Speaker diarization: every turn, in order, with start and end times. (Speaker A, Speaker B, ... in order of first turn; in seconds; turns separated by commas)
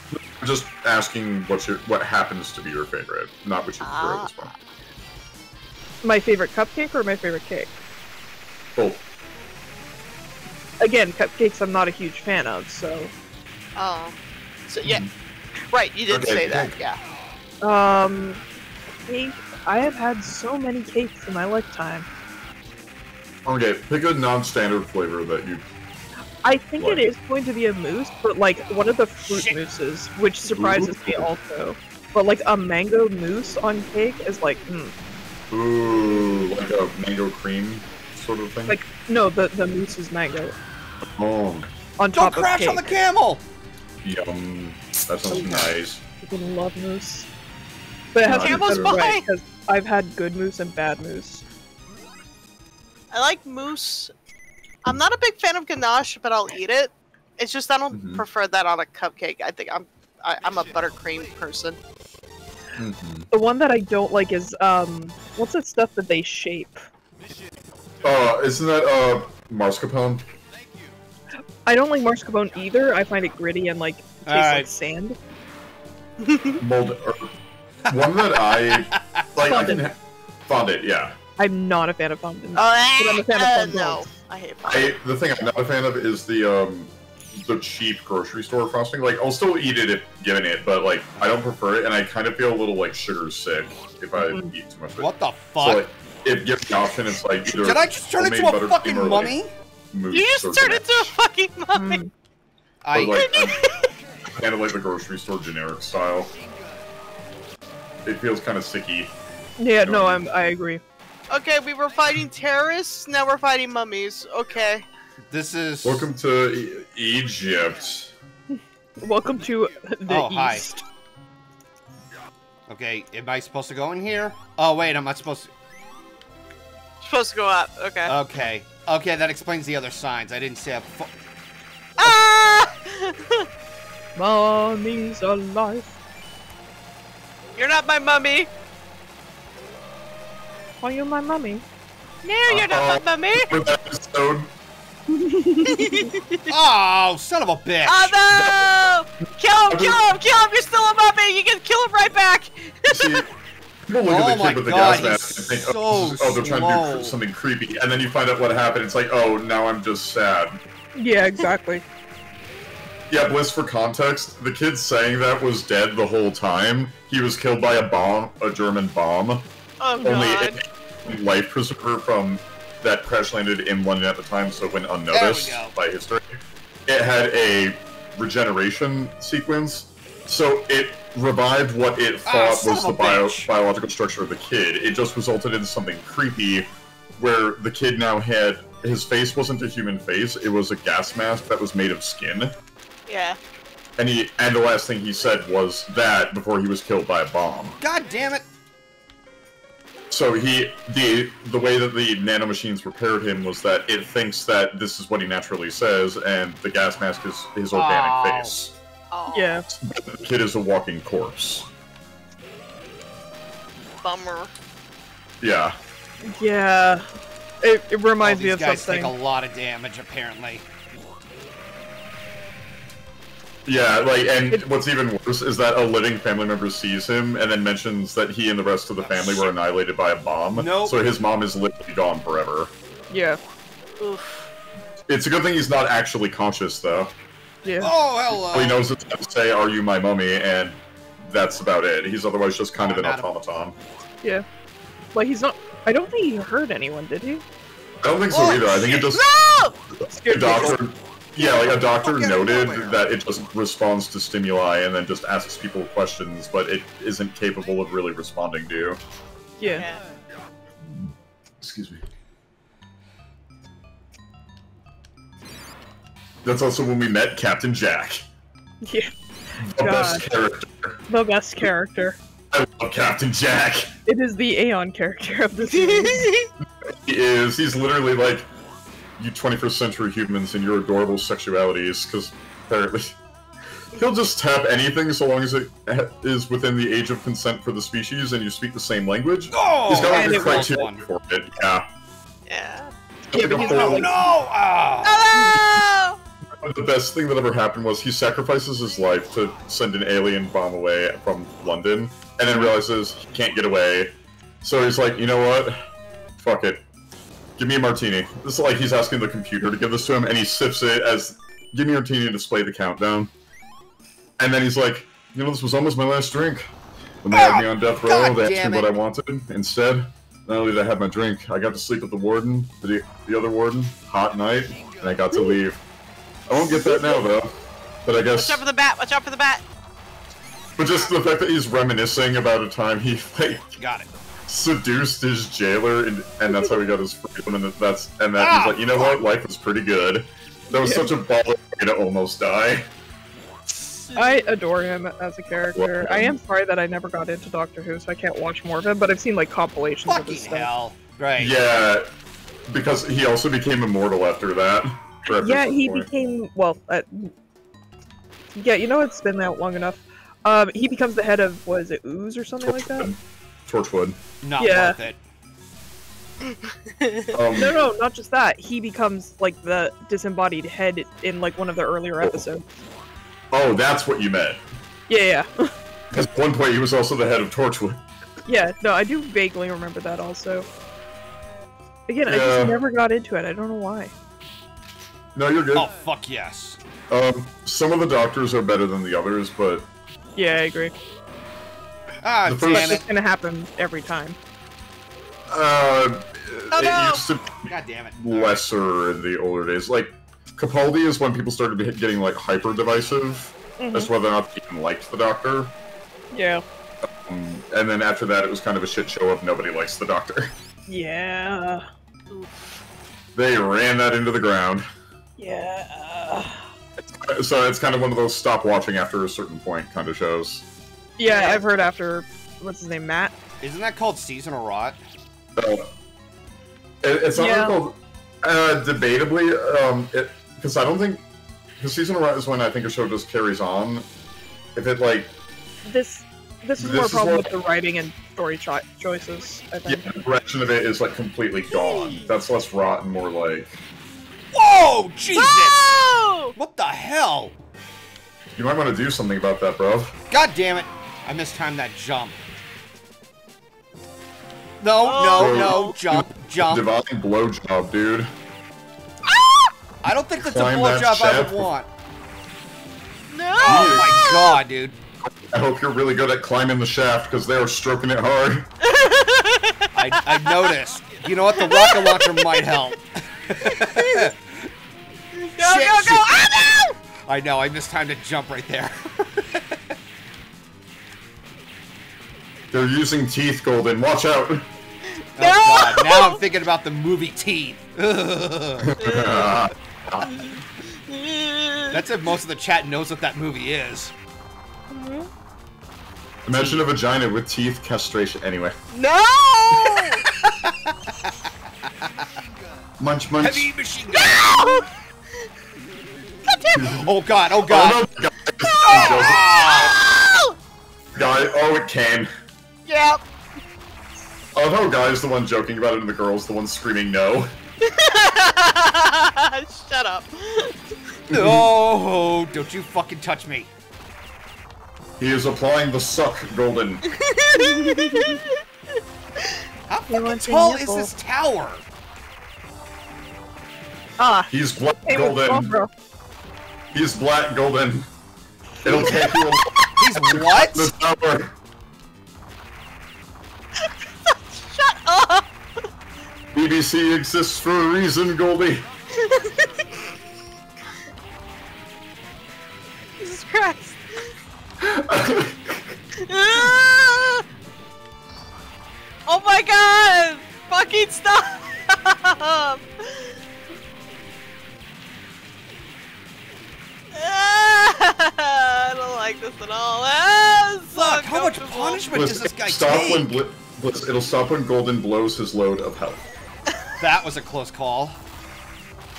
Speaker A: 0.1-4.5, Speaker B: 3.8-4.5, Speaker C: 6.0-7.7, Speaker A: 8.7-9.0, Speaker C: 10.8-13.1, Speaker B: 13.8-14.2, Speaker B: 14.7-15.0, Speaker A: 14.8-15.1, Speaker B: 15.7-17.0, Speaker A: 16.1-16.8, Speaker C: 17.6-18.4, Speaker C: 19.1-22.1, Speaker A: 23.4-25.6, Speaker C: 26.4-34.9, Speaker A: 26.8-27.1, Speaker D: 29.2-29.6, Speaker A: 30.5-31.3, Speaker A: 35.5-38.8, Speaker C: 38.7-40.5, Speaker A: 41.0-41.7, Speaker C: 42.0-43.0, Speaker D: 42.1-43.4, Speaker A: 44.0-46.0, Speaker C: 45.3-45.7, Speaker D: 45.3-45.7, Speaker C: 46.2-47.3, Speaker C: 48.1-51.4, Speaker A: 48.2-49.0, Speaker B: 48.3-49.2, Speaker B: 53.1-54.1, Speaker B: 54.8-61.8, Speaker A: 57.9-58.2, Speaker A: 62.8-63.3, Speaker C: 63.3-66.8, Speaker A: 68.0-70.2, Speaker C: 71.6-75.2, Speaker D: 74.2-74.7, Speaker B: 76.2-76.6, Speaker A: 76.6-77.3, Speaker A: 77.8-81.2, Speaker D: 78.9-79.3, Speaker C: 79.4-79.8, Speaker C: 81.4-84.1, Speaker B: 82.5-85.0, Speaker A: 84.7-95.1, Speaker C: 94.2-94.5, Speaker D: 95.0-95.8, Speaker A: 95.6-99.3, Speaker D: 97.5-99.5, Speaker A: 99.9-101.0, Speaker B: 100.1-102.0, Speaker C: 101.7-102.1, Speaker D: 102.8-103.2, Speaker A: 102.9-103.6, Speaker B: 103.1-103.9, Speaker A: 104.3-106.3, Speaker A: 108.0-109.1, Speaker C: 109.6-110.8, Speaker A: 109.8-110.3, Speaker B: 111.3-114.8, Speaker D: 115.3-116.1, Speaker A: 115.8-118.1, Speaker C: 118.5-120.8, Speaker D: 120.1-120.7, Speaker D: 122.7-125.5, Speaker B: 127.0-128.1, Speaker D: 128.1-131.1, Speaker B: 132.0-133.5, Speaker C: 134.2-135.9, Speaker B: 137.6-138.5, Speaker C: 140.8-141.6, Speaker B: 142.2-143.6, Speaker A: 142.5-144.5, Speaker C: 145.1-146.1, Speaker B: 145.6-146.5, Speaker D: 146.5-148.2, Speaker B: 147.8-153.2, Speaker A: 148.3-148.7, Speaker A: 149.7-150.0, Speaker A: 152.9-153.3, Speaker A: 153.9-160.6, Speaker D: 154.1-157.2, Speaker C: 160.9-161.8, Speaker A: 163.1-169.4, Speaker B: 169.8-170.6, Speaker A: 170.0-192.5, Speaker D: 175.1-175.7, Speaker D: 182.2-183.5, Speaker B: 193.1-193.4, Speaker A: 194.0-197.8, Speaker D: 197.8-198.4, Speaker A: 200.1-208.7, Speaker D: 207.7-208.6, Speaker B: 209.1-209.6, Speaker C: 209.3-209.7, Speaker A: 209.7-211.7, Speaker B: 214.0-214.5, Speaker A: 215.4-215.8, Speaker C: 216.2-217.1, Speaker C: 217.6-219.1, Speaker D: 218.2-220.6, Speaker A: 223.7-232.7, Speaker D: 229.0-229.5, Speaker D: 230.5-231.0, Speaker C: 233.1-233.4, Speaker B: 234.0-234.5, Speaker A: 235.1-237.1, Speaker C: 237.6-237.9, Speaker D: 237.8-238.8, Speaker A: 238.3-243.7, Speaker D: 242.8-243.3, Speaker C: 245.1-247.4, Speaker A: 248.0-249.2, Speaker D: 248.3-249.1, Speaker B: 248.9-249.8, Speaker C: 250.1-250.8, Speaker A: 250.2-259.0, Speaker D: 251.3-253.0, Speaker C: 259.6-259.8, Speaker B: 259.6-260.0, Speaker A: 260.9-262.0, Speaker A: 266.4-268.2, Speaker C: 268.8-270.2, Speaker A: 269.6-271.0, Speaker C: 271.1-272.2, Speaker A: 272.5-273.9, Speaker C: 274.1-276.3, Speaker B: 275.7-276.5, Speaker A: 276.6-278.5, Speaker A: 279.2-283.2, Speaker A: 283.9-291.9, Speaker D: 289.5-291.0, Speaker C: 290.0-290.8, Speaker B: 292.5-292.9, Speaker C: 293.3-294.3, Speaker A: 293.3-294.1, Speaker D: 293.3-295.3, Speaker B: 295.0-296.2, Speaker A: 296.6-305.8, Speaker A: 306.4-306.8, Speaker A: 307.6-313.3, Speaker A: 314.4-316.7, Speaker A: 317.2-325.8, Speaker D: 317.3-318.9, Speaker A: 326.5-327.5, Speaker C: 326.5-327.2, Speaker A: 328.0-328.6, Speaker B: 328.2-329.6, Speaker A: 330.8-333.7, Speaker D: 333.8-334.1, Speaker A: 334.5-342.9, Speaker D: 338.4-339.2, Speaker C: 340.7-341.1, Speaker C: 344.1-350.7, Speaker A: 345.7-346.4, Speaker D: 350.0-351.6, Speaker A: 351.4-352.1, Speaker A: 352.7-356.1, Speaker C: 355.4-357.3, Speaker C: 358.6-363.1, Speaker A: 362.6-364.2, Speaker D: 364.4-365.2, Speaker C: 364.6-365.0, Speaker B: 366.4-367.3, Speaker A: 367.3-367.8, Speaker C: 367.5-372.8, Speaker A: 373.5-374.6, Speaker C: 375.1-375.7, Speaker A: 376.1-378.0, Speaker C: 378.4-380.7, Speaker C: 382.1-384.1, Speaker A: 382.2-382.8, Speaker A: 385.3-385.9, Speaker D: 385.7-386.8, Speaker A: 387.1-389.9, Speaker C: 390.4-390.9, Speaker D: 392.2-393.0, Speaker A: 392.4-393.0, Speaker C: 392.7-394.4, Speaker A: 395.5-405.7, Speaker B: 396.7-397.2, Speaker D: 397.7-398.6, Speaker C: 403.8-404.1, Speaker C: 406.3-406.6, Speaker A: 407.0-410.5, Speaker C: 410.9-411.9, Speaker B: 412.3-412.6, Speaker A: 413.3-414.9, Speaker C: 415.4-416.7, Speaker A: 417.0-420.6, Speaker C: 421.2-423.3, Speaker B: 421.3-421.6, Speaker D: 423.6-425.0, Speaker A: 425.6-425.9, Speaker A: 427.0-431.2, Speaker C: 427.3-427.8, Speaker A: 431.8-434.1, Speaker A: 434.8-435.3, Speaker C: 435.9-440.1, Speaker A: 436.8-437.5, Speaker A: 439.9-443.8, Speaker B: 441.7-442.3, Speaker D: 444.5-447.5, Speaker B: 445.4-446.5, Speaker A: 448.6-450.1, Speaker D: 450.3-452.4, Speaker D: 454.8-456.8, Speaker B: 455.0-455.9, Speaker A: 455.3-458.3, Speaker D: 460.0-461.9, Speaker A: 460.1-461.7, Speaker B: 463.3-464.3, Speaker D: 463.6-464.9, Speaker A: 463.6-464.6, Speaker A: 465.2-468.7, Speaker B: 468.8-470.7, Speaker D: 469.9-474.7, Speaker B: 471.6-472.7, Speaker B: 473.6-474.3, Speaker B: 475.3-476.9, Speaker D: 475.6-476.4, Speaker D: 477.2-479.9, Speaker A: 482.7-484.7, Speaker B: 485.1-486.4, Speaker D: 485.4-488.9, Speaker A: 488.8-490.4, Speaker B: 489.0-489.6, Speaker B: 490.2-492.0, Speaker D: 491.9-494.1, Speaker C: 494.9-495.3, Speaker A: 496.4-498.8, Speaker D: 496.5-496.9, Speaker B: 498.9-500.2, Speaker D: 500.6-501.3, Speaker A: 503.0-503.7, Speaker D: 503.4-504.8, Speaker B: 504.1-504.9, Speaker B: 506.4-506.8, Speaker D: 506.7-508.0, Speaker A: 506.7-507.1, Speaker A: 507.6-509.4, Speaker B: 508.6-510.5, Speaker D: 508.8-509.9, Speaker A: 511.1-512.3, Speaker B: 512.9-513.2, Speaker A: 514.5-517.5, Speaker B: 517.8-520.8, Speaker A: 521.3-521.7, Speaker D: 521.3-523.7, Speaker A: 525.2-527.0, Speaker B: 527.1-528.6, Speaker C: 527.6-528.4, Speaker D: 529.9-531.8, Speaker C: 530.1-531.1, Speaker C: 534.2-534.5, Speaker A: 534.5-535.8, Speaker C: 535.0-535.9, Speaker A: 536.9-538.1, Speaker A: 538.8-541.5, Speaker D: 540.0-540.9, Speaker B: 543.8-545.5, Speaker A: 546.5-548.9, Speaker B: 549.1-549.8, Speaker B: 553.2-554.3, Speaker A: 554.8-555.9, Speaker B: 556.2-557.4, Speaker B: 559.3-563.3, Speaker B: 567.1-572.0, Speaker D: 570.9-573.3, Speaker A: 572.1-576.3, Speaker D: 577.0-578.2